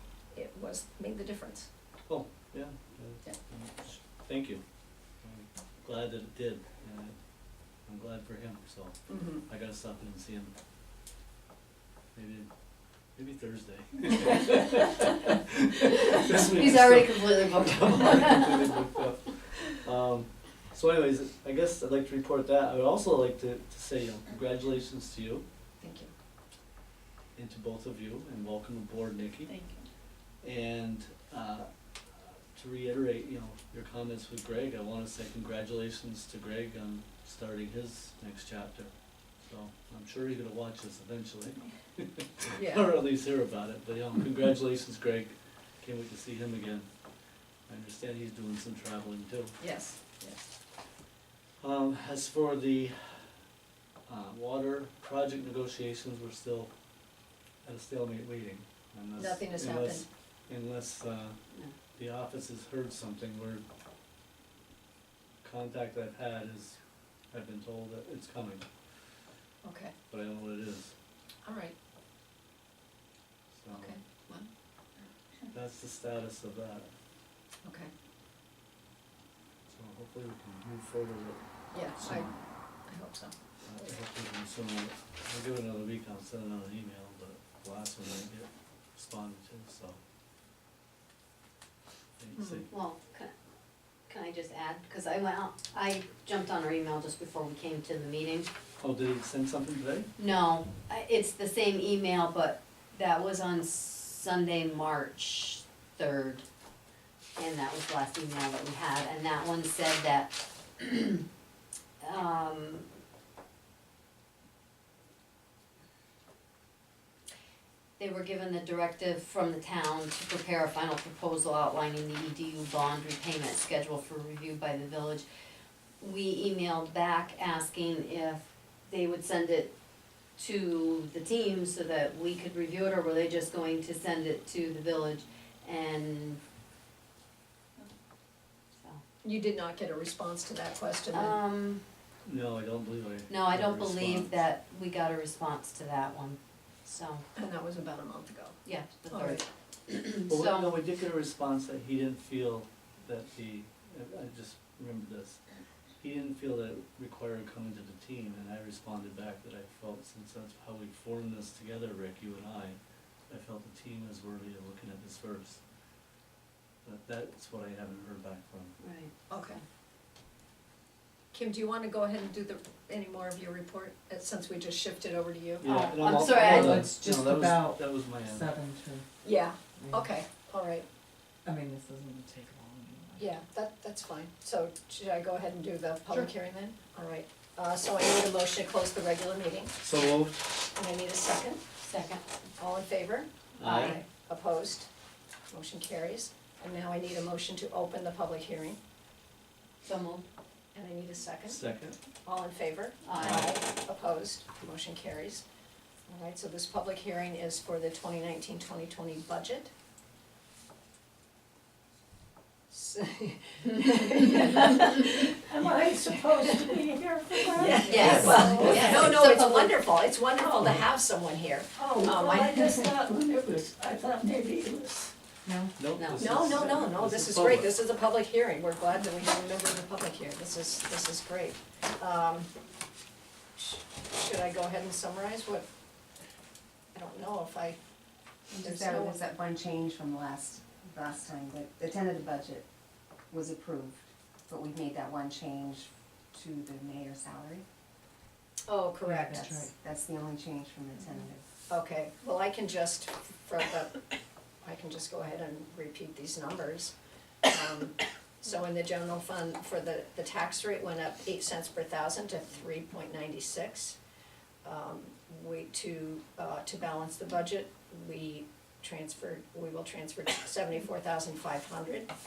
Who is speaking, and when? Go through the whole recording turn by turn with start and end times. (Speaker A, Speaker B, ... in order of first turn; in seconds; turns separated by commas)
Speaker A: 0.3-1.7, Speaker B: 2.1-4.6, Speaker B: 5.2-7.2, Speaker B: 7.8-10.5, Speaker A: 9.1-9.4, Speaker B: 12.1-12.5, Speaker B: 13.2-25.4, Speaker C: 16.4-18.8, Speaker A: 25.8-26.1, Speaker B: 27.4-29.5, Speaker B: 30.4-46.9, Speaker A: 42.5-42.9, Speaker B: 47.7-49.6, Speaker A: 49.6-50.4, Speaker B: 51.6-53.3, Speaker B: 54.1-56.7, Speaker B: 57.6-61.4, Speaker A: 59.2-60.1, Speaker B: 62.0-63.6, Speaker B: 65.4-66.8, Speaker B: 67.3-68.7, Speaker A: 69.6-69.9, Speaker B: 70.1-70.9, Speaker A: 71.5-71.7, Speaker B: 73.5-73.9, Speaker A: 73.8-74.5, Speaker B: 75.5-76.9, Speaker A: 77.6-77.9, Speaker B: 79.7-81.4, Speaker A: 81.7-83.3, Speaker B: 82.0-82.3, Speaker B: 83.7-90.0, Speaker B: 92.2-92.7, Speaker A: 92.4-92.6, Speaker C: 92.7-93.3, Speaker C: 94.1-98.5, Speaker B: 98.8-100.1, Speaker C: 100.2-106.5, Speaker C: 107.4-111.2, Speaker C: 112.0-112.9, Speaker C: 118.0-125.3, Speaker C: 126.0-129.7, Speaker C: 130.4-136.4, Speaker A: 139.2-141.4, Speaker C: 141.1-141.8, Speaker B: 142.2-144.4, Speaker C: 143.3-147.2, Speaker A: 147.4-149.4, Speaker C: 148.7-150.8, Speaker B: 150.3-155.4, Speaker B: 156.0-165.6, Speaker B: 166.8-168.8, Speaker C: 168.8-169.3, Speaker A: 169.3-169.6, Speaker A: 171.3-175.7, Speaker B: 175.6-178.5, Speaker C: 175.7-176.9, Speaker D: 176.4-179.1, Speaker A: 179.2-180.9, Speaker D: 179.8-180.1, Speaker D: 181.4-183.2, Speaker A: 183.2-189.8, Speaker B: 189.8-190.4, Speaker A: 190.7-191.6, Speaker C: 191.8-192.5, Speaker A: 192.6-194.9, Speaker B: 193.6-194.0, Speaker C: 193.6-194.0, Speaker A: 195.5-198.8, Speaker C: 199.8-200.2, Speaker A: 200.7-201.6, Speaker B: 201.5-202.0, Speaker A: 202.2-205.4, Speaker C: 203.1-203.6, Speaker B: 203.2-203.5, Speaker A: 206.1-209.7, Speaker A: 212.7-215.4, Speaker E: 215.4-218.9, Speaker A: 216.3-216.7, Speaker A: 217.5-222.9, Speaker C: 217.8-219.8, Speaker B: 218.0-218.3, Speaker D: 218.1-218.4, Speaker E: 221.8-225.1, Speaker D: 225.4-225.7, Speaker B: 225.8-227.7, Speaker C: 225.9-226.4, Speaker A: 226.2-232.5, Speaker A: 233.6-235.7, Speaker A: 236.9-237.8, Speaker F: 238.5-242.7, Speaker A: 238.6-239.2, Speaker F: 243.3-247.7, Speaker A: 248.7-249.5, Speaker D: 249.0-249.7, Speaker F: 249.3-251.4, Speaker A: 251.7-254.0, Speaker A: 254.6-256.9, Speaker A: 257.5-264.0, Speaker A: 264.6-272.1